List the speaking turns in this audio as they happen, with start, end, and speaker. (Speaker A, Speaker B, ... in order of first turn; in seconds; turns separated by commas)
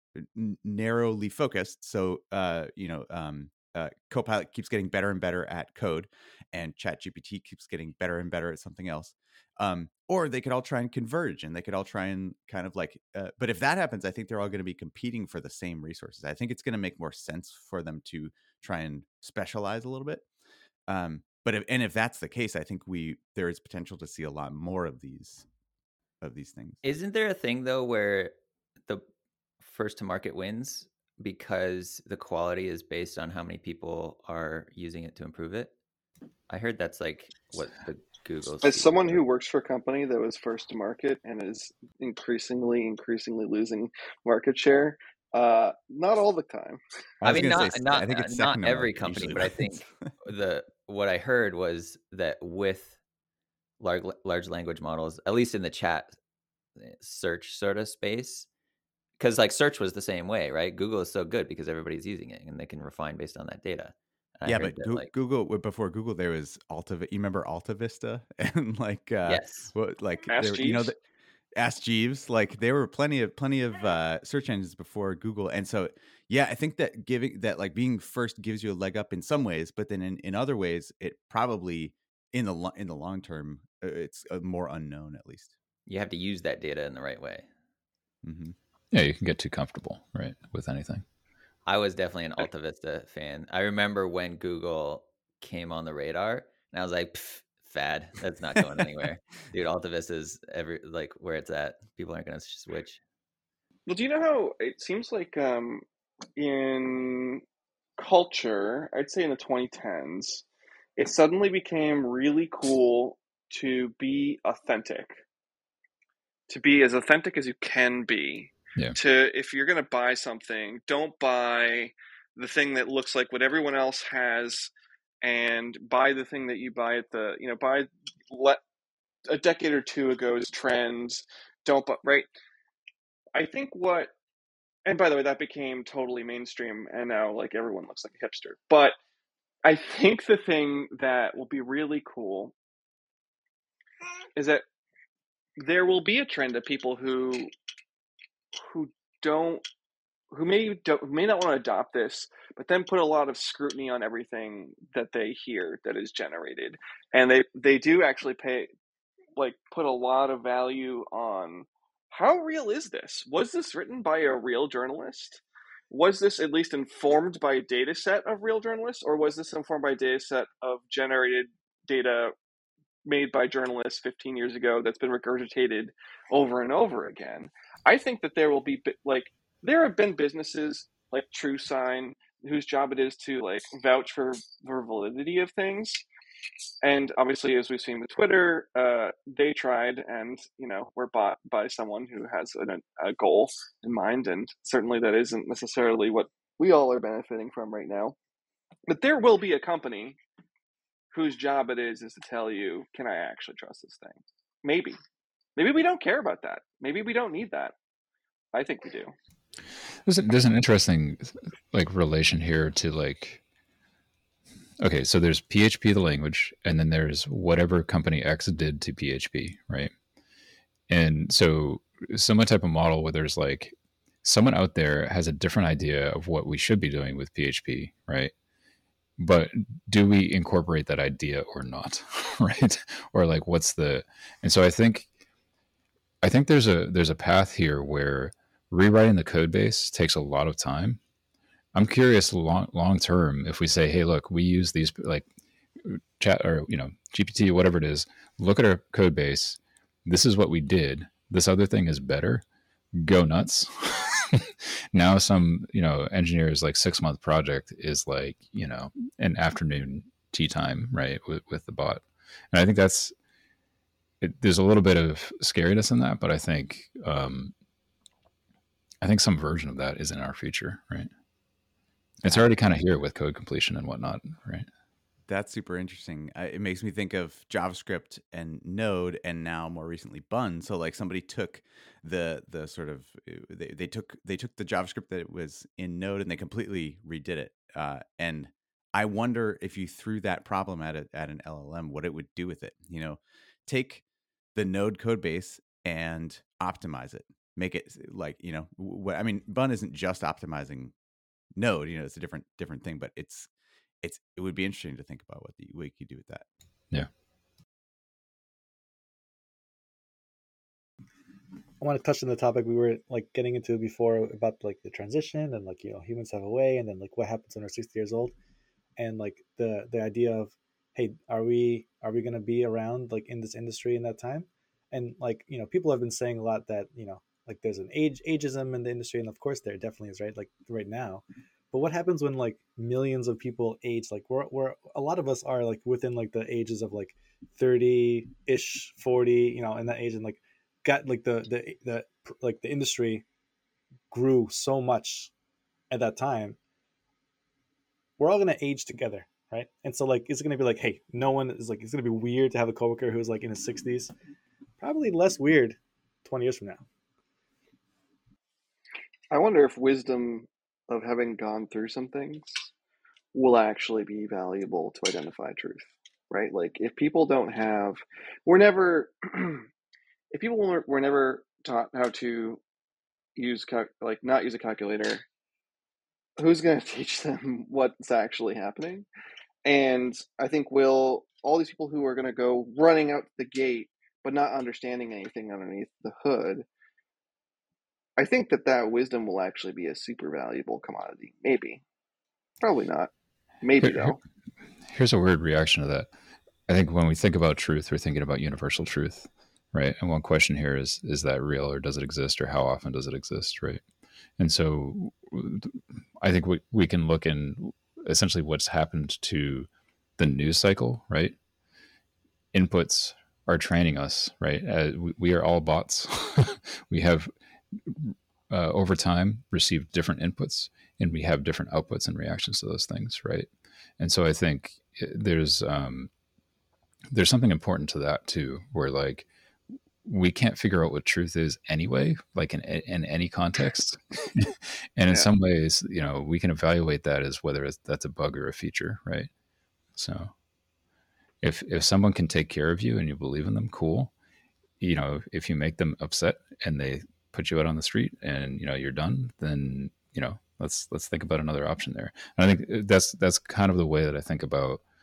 Speaker A: 0.2-20.2, Speaker A: 20.9-25.5, Speaker A: 26.2-26.8, Speaker B: 26.8-28.3, Speaker B: 29.6-35.7, Speaker B: 36.5-39.2, Speaker C: 38.6-46.8, Speaker A: 47.2-50.1, Speaker B: 47.2-53.0, Speaker B: 53.8-56.2, Speaker B: 56.8-58.5, Speaker B: 59.2-65.1, Speaker A: 64.5-71.0, Speaker B: 69.2-69.7, Speaker C: 70.3-70.9, Speaker A: 71.6-85.5, Speaker B: 85.9-87.5, Speaker A: 88.2-88.6, Speaker D: 88.9-91.0, Speaker B: 91.7-103.0, Speaker C: 103.9-105.8, Speaker C: 106.4-107.4, Speaker C: 108.0-110.5, Speaker C: 111.0-115.2, Speaker C: 116.5-128.6, Speaker C: 129.3-132.3, Speaker C: 133.4-134.1, Speaker C: 134.9-139.0, Speaker C: 139.7-142.5, Speaker C: 144.4-144.6, Speaker C: 145.6-147.5, Speaker C: 148.6-149.6, Speaker C: 150.3-158.7, Speaker C: 159.4-172.3, Speaker C: 173.1-186.0, Speaker C: 186.8-198.2, Speaker C: 198.9-200.2, Speaker C: 201.1-205.0, Speaker C: 205.6-207.7, Speaker C: 208.5-209.1, Speaker D: 210.1-213.4, Speaker D: 214.8-219.9, Speaker D: 220.9-228.3, Speaker D: 229.2-235.1, Speaker D: 236.2-241.0, Speaker D: 241.7-245.2, Speaker D: 245.8-252.4, Speaker D: 252.9-263.1, Speaker D: 264.2-267.5, Speaker D: 269.0-271.1, Speaker D: 272.2-274.7, Speaker A: 275.3-294.0, Speaker A: 294.6-300.9, Speaker A: 301.6-303.5, Speaker A: 304.0-306.4, Speaker E: 311.8-318.3, Speaker E: 319.0-343.2, Speaker E: 344.1-345.3, Speaker E: 345.9-346.6, Speaker E: 348.2-354.1, Speaker E: 354.8-356.8, Speaker C: 359.3-362.7, Speaker C: 363.3-369.7, Speaker C: 370.3-372.6, Speaker C: 373.4-375.2, Speaker C: 376.4-379.1, Speaker C: 379.6-386.7, Speaker C: 388.2-391.8, Speaker C: 392.6-393.1, Speaker C: 393.6-394.2, Speaker D: 393.8-394.2, Speaker D: 394.9-396.1, Speaker D: 396.7-403.8, Speaker D: 404.4-409.7, Speaker D: 410.2-411.4, Speaker D: 412.5-423.5, Speaker D: 424.0-426.1, Speaker D: 427.1-429.3, Speaker D: 430.0-439.3, Speaker D: 440.0-440.3, Speaker D: 441.4-444.1, Speaker D: 444.8-454.8